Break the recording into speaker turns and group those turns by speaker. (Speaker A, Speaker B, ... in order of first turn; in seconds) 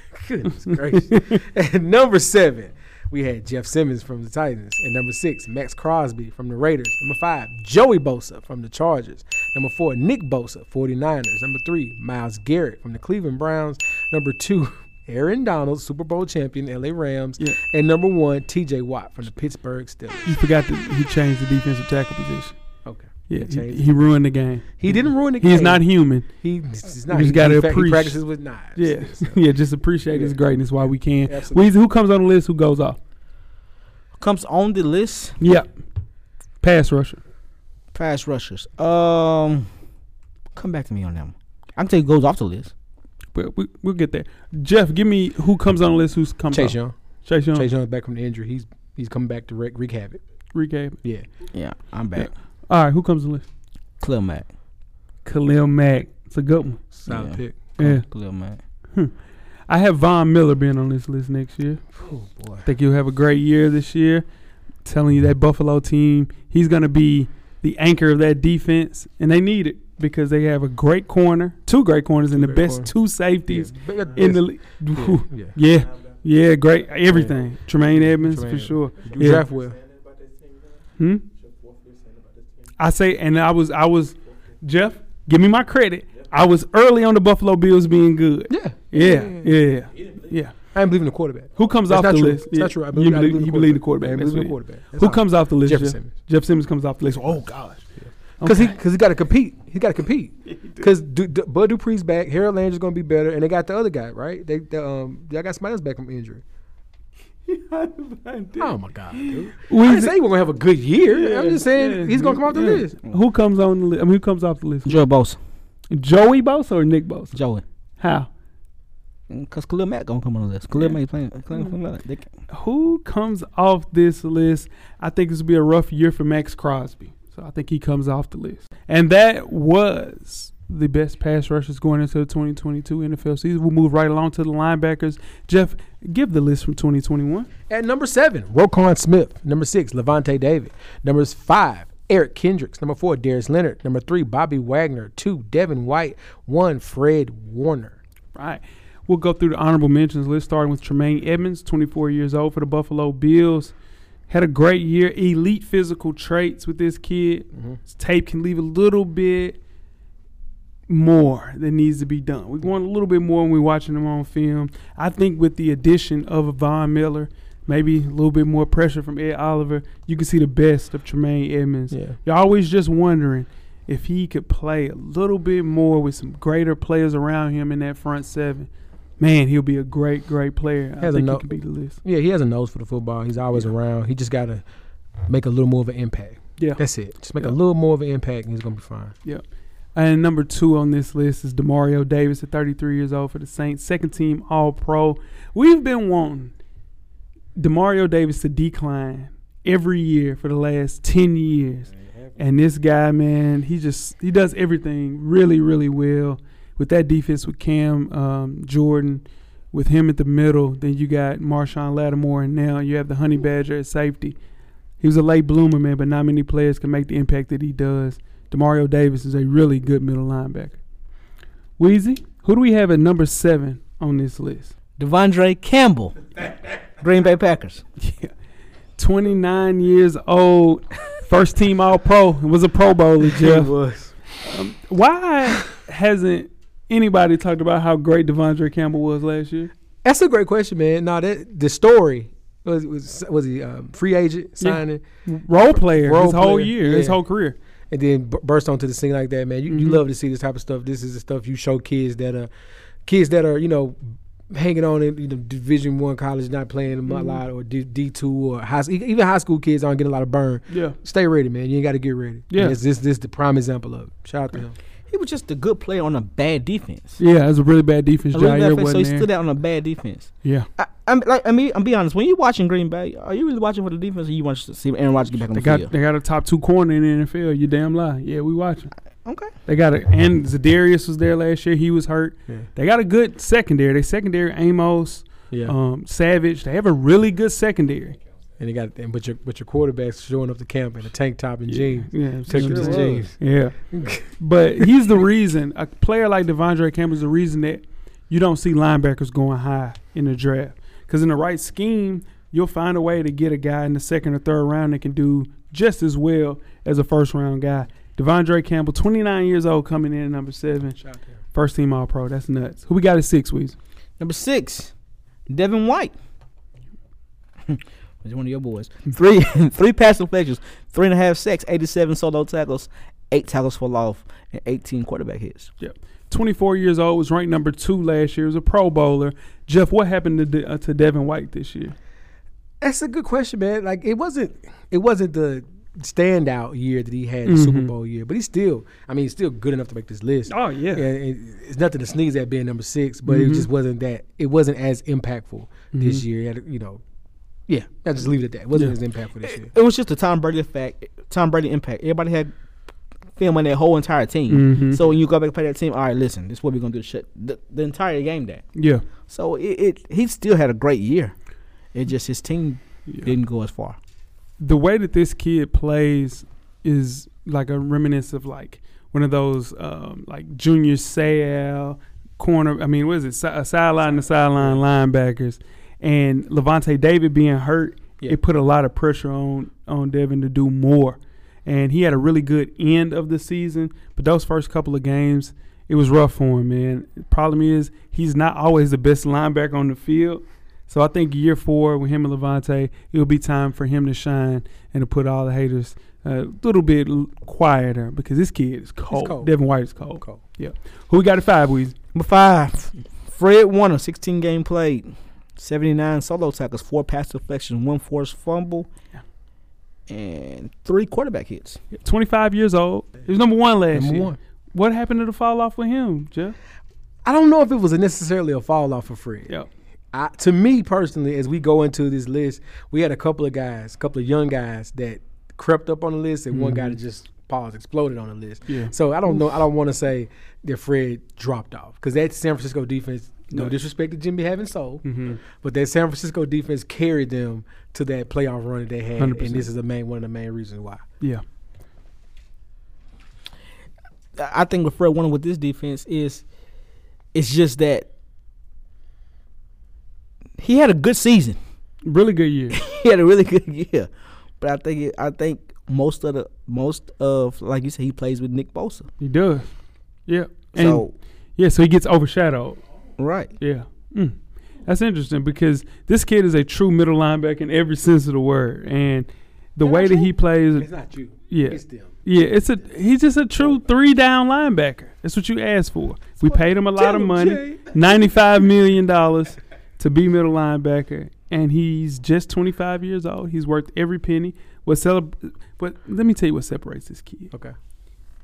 Speaker A: 0.1-20.4, 22.9-24.1, 24.8-29.4, 30.1-30.4, 31.3-31.7, 46.5-47.0, 47.5-50.2, 56.9-57.6, 62.0-62.6, 72.3-72.9, 73.5-75.5, 77.1-77.4, 78.0-79.8, 88.5-89.5, 90.7-96.1, 98.4-106.4, 108.6-113.0, 137.7-148.0, 171.9-172.2, 181.0-181.5, 182.0-184.6, 185.3-189.1, 202.0-202.3, 233.3-234.1, 240.0-245.0, 245.6-247.2, 247.9-252.5, 253.1-254.0, 254.5-264.8, 285.5-285.8, 288.6-293.3, 293.9-294.3, 332.8-347.0, 347.7-349.7, 374.2-374.8, 399.1-399.5, 413.9-414.4, 417.2-419.5, 420.1-441.0, 469.8-472.1, 477.0-477.9
Speaker B: 0.5-1.4, 20.3-22.6, 23.3-26.3, 27.1-28.2, 28.8-33.0, 35.4-35.7, 36.6-37.2, 43.3-47.7, 50.5-51.0, 52.2-53.5, 55.2-56.9, 57.8-58.0, 59.7-61.8, 62.6-64.2, 64.8-79.5, 81.0-81.2, 82.8-90.5, 91.6-97.9, 98.4-98.8, 107.5-110.1, 111.1-115.0, 115.9-117.4, 118.0-118.3, 122.5-137.5, 148.3-153.7, 154.3-159.6, 160.9-182.0, 189.9-196.5, 197.6-214.4, 215.0-220.8, 221.8-224.7, 228.0-228.3, 229.0-233.7, 234.4-239.7, 244.6-247.6, 249.7-250.0, 257.1-257.4, 260.7-260.9, 262.5-262.8, 267.2-269.3, 275.5-278.9, 279.7-288.2, 291.7-293.8, 294.4-311.0, 311.5-313.8, 325.8-331.9, 337.5-337.9, 340.5-341.1, 343.3-343.7, 345.9-346.2, 354.5-355.0, 358.8-359.0, 364.6-401.9, 411.9-416.6, 426.5-427.0, 428.7-428.9, 435.0-435.4, 439.2-439.7, 452.1-452.8, 459.2-459.7, 460.3-461.1, 461.6-462.8, 463.6-470.9, 471.5-487.5
Speaker C: 34.2-35.4, 37.9-39.7, 40.5-42.7, 51.5-52.3, 54.0-54.5, 57.1-58.6, 114.9-115.4, 117.3-117.6, 119.3-122.3, 225.0-227.8, 265.1-267.2, 268.3-275.9, 279.2-279.5, 292.5-293.2, 314.2-314.9, 315.5-316.1, 317.7-325.7, 349.4-352.5, 353.4-358.6, 359.3-361.3, 361.9-364.0, 402.1-408.9, 410.1-411.8, 444.4-446.4, 447.3-448.1, 450.6-451.6, 452.7-454.1, 454.6-459.1, 460.8-461.1, 463.2-463.5